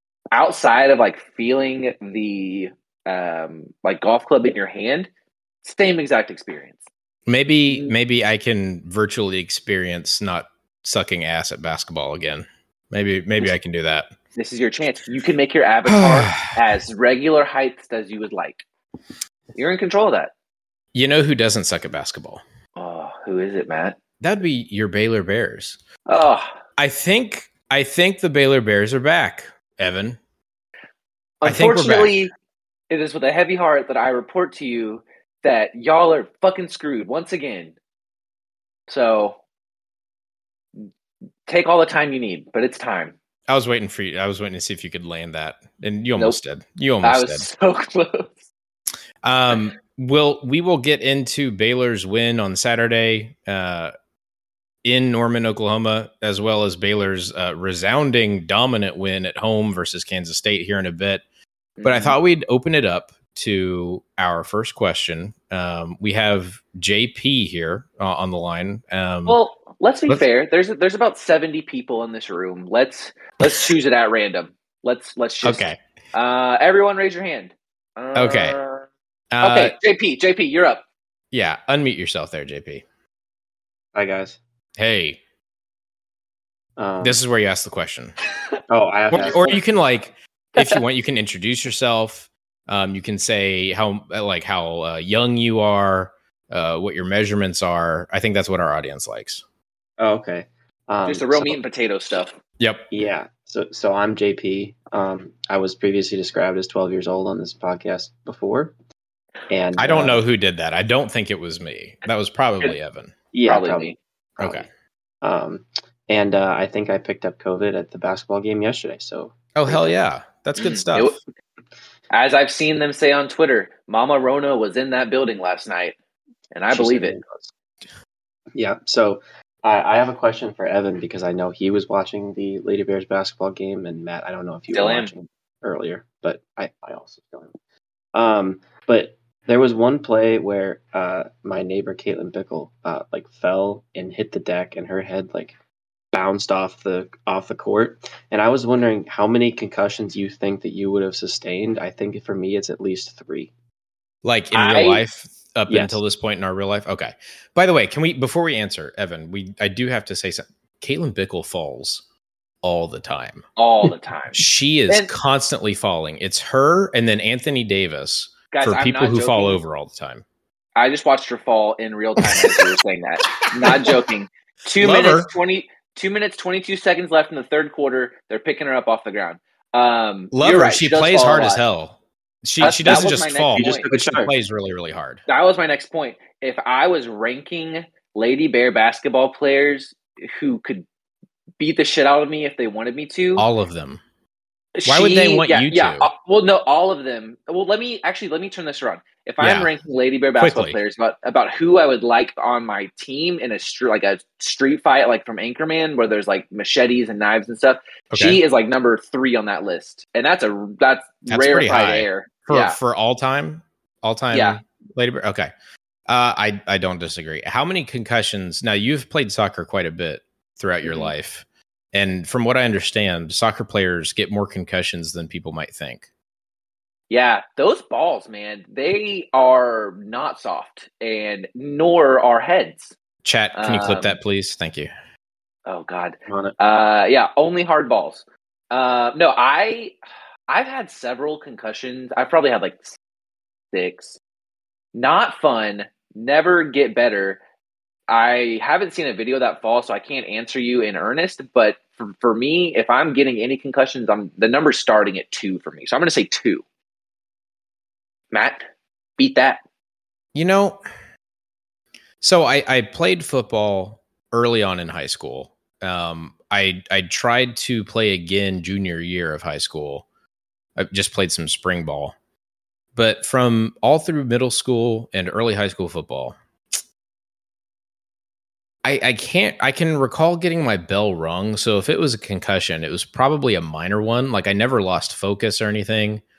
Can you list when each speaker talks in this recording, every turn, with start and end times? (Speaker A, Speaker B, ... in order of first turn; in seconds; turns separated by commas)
Speaker A: 0.3-5.1, Speaker A: 5.6-6.8, Speaker B: 7.3-14.1, Speaker A: 7.7-7.9, Speaker A: 14.3-18.6, Speaker B: 15.9-16.5, Speaker A: 19.5-20.3, Speaker B: 20.9-22.4, Speaker A: 22.8-24.0, Speaker B: 24.2-25.8, Speaker A: 26.1-26.5, Speaker B: 26.8-30.2, Speaker A: 31.4-32.3, Speaker B: 31.4-32.2, Speaker A: 32.9-37.7, Speaker A: 38.9-39.4, Speaker A: 41.5-43.1, Speaker B: 43.5-47.5, Speaker A: 47.0-48.3, Speaker B: 49.2-53.9, Speaker B: 54.8-61.2, Speaker A: 61.8-62.2, Speaker B: 61.8-69.4, Speaker A: 69.2-78.9, Speaker B: 75.4-75.8, Speaker B: 78.1-78.5, Speaker B: 79.3-79.7, Speaker A: 79.4-80.8, Speaker B: 81.3-82.8, Speaker C: 83.9-84.4, Speaker B: 84.8-85.2, Speaker C: 86.8-87.2, Speaker B: 87.0-88.1, Speaker C: 88.7-89.6, Speaker B: 89.1-99.4, Speaker C: 100.0-101.6, Speaker A: 101.0-102.4, Speaker B: 102.6-102.9, Speaker C: 102.9-108.7, Speaker C: 109.5-110.2, Speaker B: 109.8-113.1, Speaker C: 113.3-114.6, Speaker A: 113.5-114.0, Speaker B: 114.4-114.7, Speaker C: 115.2-120.0, Speaker B: 119.5-121.2, Speaker A: 120.6-121.2, Speaker A: 122.1-126.0, Speaker A: 126.5-127.2, Speaker C: 126.7-127.5, Speaker C: 128.5-137.5, Speaker A: 134.7-135.1, Speaker C: 138.1-145.5, Speaker C: 146.1-153.5, Speaker B: 154.2-162.0, Speaker A: 154.5-155.0, Speaker C: 155.7-155.9, Speaker B: 162.6-170.2, Speaker A: 163.6-165.1, Speaker A: 168.5-169.6, Speaker A: 170.8-181.6, Speaker B: 172.2-174.0, Speaker B: 174.8-175.3, Speaker B: 180.3-185.2, Speaker A: 182.6-183.9, Speaker C: 182.8-184.3, Speaker A: 185.3-190.9, Speaker A: 191.6-193.4, Speaker B: 193.4-194.0, Speaker A: 194.8-212.8, Speaker B: 194.8-196.1, Speaker B: 199.4-199.7, Speaker B: 200.4-200.8, Speaker B: 208.1-208.4, Speaker B: 211.3-215.5, Speaker A: 214.3-214.6, Speaker B: 216.1-226.1, Speaker A: 220.8-221.1, Speaker A: 227.1-232.9, Speaker B: 233.2-234.9, Speaker A: 233.5-234.2, Speaker A: 235.7-239.9, Speaker C: 236.3-236.5, Speaker A: 240.5-243.0, Speaker A: 243.7-244.2, Speaker A: 244.9-247.4, Speaker A: 248.1-256.6, Speaker A: 258.3-258.6, Speaker A: 259.2-259.6, Speaker B: 260.3-260.8, Speaker B: 262.2-270.1, Speaker B: 270.8-272.1, Speaker B: 272.9-276.4, Speaker B: 278.8-286.2